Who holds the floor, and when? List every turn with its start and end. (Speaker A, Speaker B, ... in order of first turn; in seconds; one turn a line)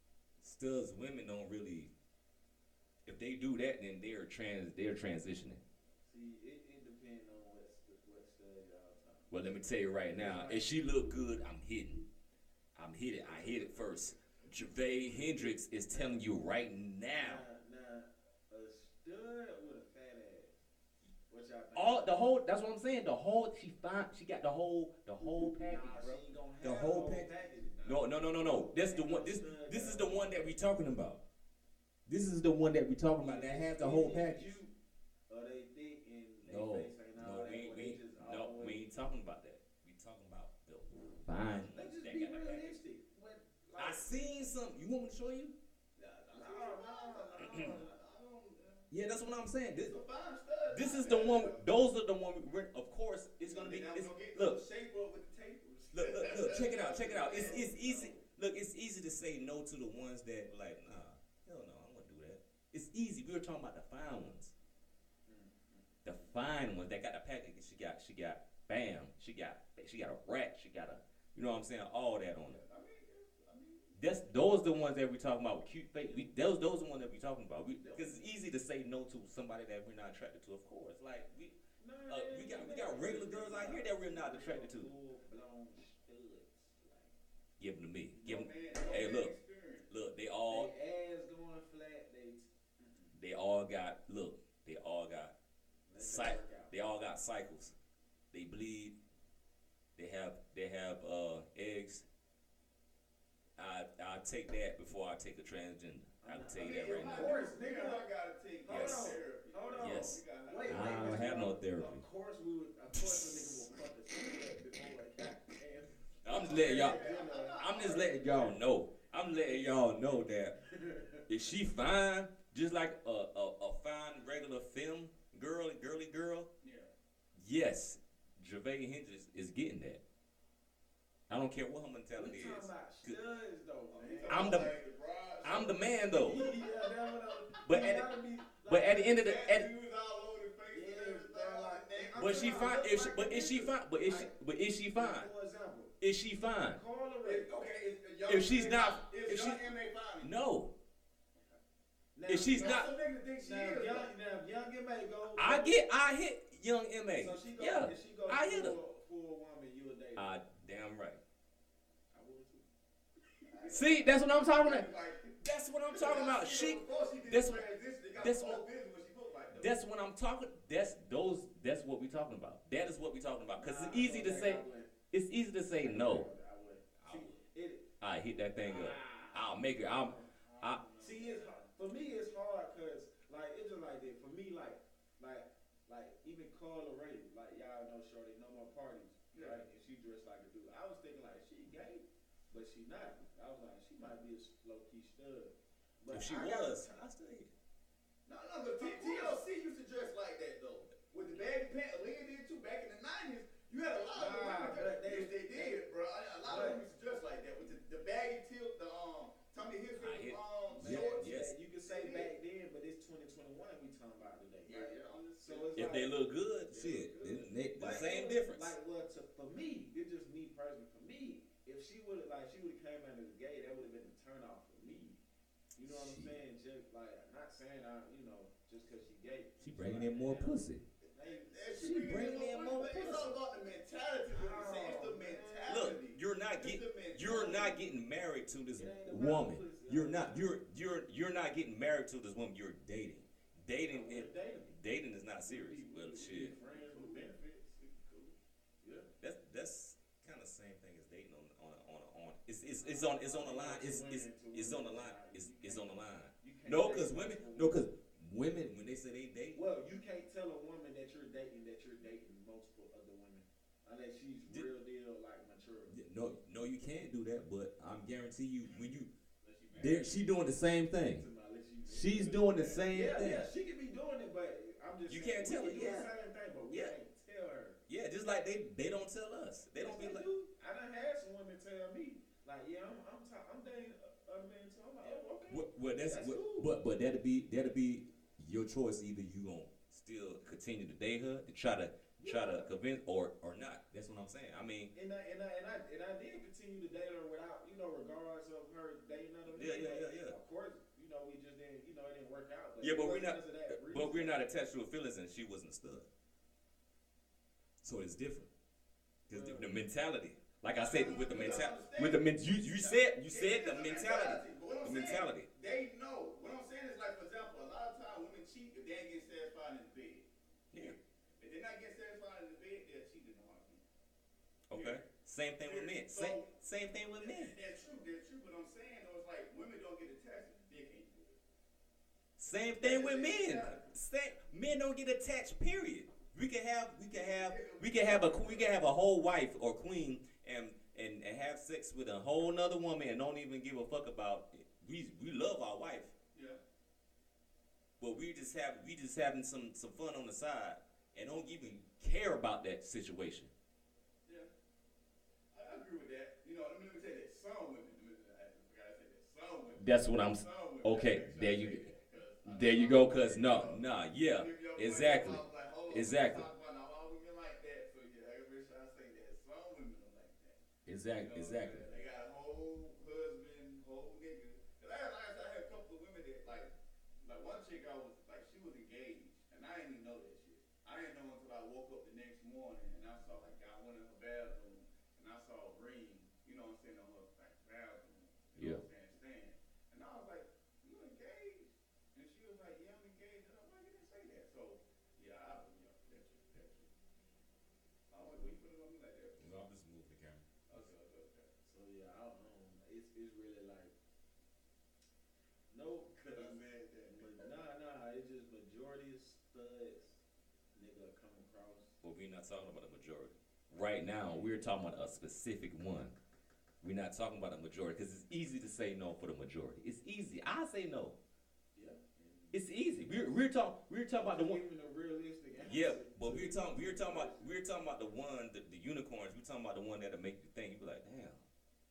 Speaker A: 0.4-1.9
Speaker A: 3.0-5.6
Speaker B: 6.0-10.7
Speaker A: 9.3-12.1
Speaker A: 12.7-17.4
Speaker B: 15.9-16.2
Speaker B: 17.2-20.6
Speaker B: 21.3-22.2
Speaker A: 21.7-27.3
Speaker B: 25.2-30.5
Speaker A: 27.8-31.2
Speaker A: 32.0-34.6
Speaker B: 33.2-34.7
Speaker B: 35.3-38.8
Speaker A: 36.4-42.8
Speaker B: 41.7-44.1
Speaker A: 43.8-45.5
Speaker C: 46.0-48.9
Speaker B: 46.3-47.9
Speaker A: 47.4-47.8
Speaker A: 48.9-50.0
Speaker C: 49.7-51.6
Speaker A: 50.7-54.6
Speaker C: 53.4-58.2
Speaker A: 55.9-64.5
Speaker B: 65.3-66.3
Speaker A: 66.0-72.6
Speaker C: 72.5-74.0
Speaker A: 74.0-84.9
Speaker B: 76.0-76.3
Speaker B: 77.8-78.3
Speaker B: 81.8-87.1
Speaker A: 87.6-89.3
Speaker C: 88.1-89.9
Speaker A: 89.9-90.7
Speaker B: 90.5-93.1
Speaker A: 93.1-95.3
Speaker B: 95.9-96.7
Speaker A: 96.0-97.7
Speaker A: 98.3-99.0
Speaker A: 100.0-102.0
Speaker A: 103.6-107.3
Speaker B: 106.2-108.0
Speaker C: 106.5-111.4
Speaker B: 108.6-117.9
Speaker A: 108.7-109.2
Speaker A: 109.8-112.0
Speaker A: 112.9-113.6
Speaker A: 116.2-117.0
Speaker C: 116.3-118.6
Speaker A: 117.6-120.6
Speaker B: 120.6-121.2
Speaker A: 121.3-126.5
Speaker C: 126.6-126.9
Speaker A: 127.4-130.0
Speaker A: 131.3-133.2
Speaker B: 132.1-134.7
Speaker C: 133.9-137.9
Speaker A: 134.3-134.8
Speaker A: 135.4-136.5
Speaker B: 136.1-139.2
Speaker A: 137.6-138.1
Speaker A: 138.6-139.7
Speaker C: 139.0-142.7
Speaker B: 140.7-144.3
Speaker A: 142.2-145.3
Speaker B: 144.9-145.9
Speaker A: 146.0-146.8
Speaker B: 146.7-147.5
Speaker C: 147.2-150.3
Speaker A: 148.3-150.7
Speaker B: 152.1-152.8
Speaker A: 152.3-152.9
Speaker C: 152.5-154.1
Speaker B: 153.4-155.8
Speaker A: 155.3-158.8
Speaker B: 157.2-160.3
Speaker A: 160.2-161.2
Speaker B: 162.1-162.7
Speaker C: 163.4-165.3
Speaker A: 163.7-164.9
Speaker A: 165.4-168.6
Speaker C: 165.9-169.8
Speaker A: 169.5-176.3
Speaker B: 173.6-174.9
Speaker B: 175.8-177.9
Speaker A: 177.0-177.4
Speaker A: 178.0-180.9
Speaker B: 178.6-197.0
Speaker C: 180.8-181.6
Speaker C: 189.3-189.6
Speaker A: 196.1-197.5
Speaker C: 198.2-211.3
Speaker B: 198.8-199.4
Speaker B: 204.1-205.8
Speaker B: 206.4-206.8
Speaker A: 210.0-211.6
Speaker B: 210.7-216.2
Speaker C: 211.8-212.3
Speaker C: 214.6-216.0
Speaker A: 215.8-218.8
Speaker B: 216.7-225.2
Speaker C: 216.7-217.5
Speaker B: 225.8-231.5
Speaker A: 225.8-226.3
Speaker A: 229.6-230.8
Speaker C: 231.2-237.8
Speaker A: 231.7-233.3
Speaker B: 234.3-235.8
Speaker A: 235.7-246.5
Speaker B: 238.8-240.6
Speaker B: 243.9-244.8
Speaker B: 245.4-247.4
Speaker C: 246.3-248.3
Speaker B: 248.8-249.1
Speaker A: 249.2-259.6
Speaker B: 252.8-257.9
Speaker B: 259.5-266.0
Speaker A: 265.9-269.1
Speaker C: 269.4-270.2
Speaker A: 269.8-271.2
Speaker B: 271.1-277.8
Speaker A: 271.9-273.5
Speaker C: 272.5-272.8
Speaker A: 275.1-276.1
Speaker A: 277.9-280.3
Speaker B: 279.8-286.8
Speaker C: 285.0-285.3
Speaker A: 285.5-294.9
Speaker B: 292.2-292.7
Speaker B: 294.9-304.4
Speaker A: 299.5-300.4
Speaker A: 302.8-306.1
Speaker A: 307.8-308.5
Speaker A: 309.3-315.5
Speaker B: 309.3-309.7
Speaker C: 310.7-323.8
Speaker A: 324.7-327.6
Speaker C: 324.7-325.1
Speaker C: 325.6-326.6
Speaker C: 327.2-331.4
Speaker A: 332.4-346.1
Speaker C: 332.8-333.9
Speaker C: 337.1-338.8
Speaker C: 346.3-346.6
Speaker A: 348.0-353.5
Speaker C: 355.5-370.6
Speaker A: 359.8-361.9
Speaker A: 362.4-366.5
Speaker A: 370.9-371.9
Speaker C: 371.2-396.9
Speaker A: 388.6-388.8
Speaker C: 398.1-399.5
Speaker A: 399.4-400.4
Speaker C: 400.7-401.5
Speaker B: 401.6-403.9
Speaker B: 405.7-410.2
Speaker C: 406.2-407.6
Speaker B: 410.7-411.9
Speaker A: 412.0-416.1
Speaker B: 414.3-414.6
Speaker A: 416.8-421.2
Speaker B: 421.7-422.6
Speaker A: 422.5-424.6
Speaker B: 424.1-427.5
Speaker A: 425.6-431.4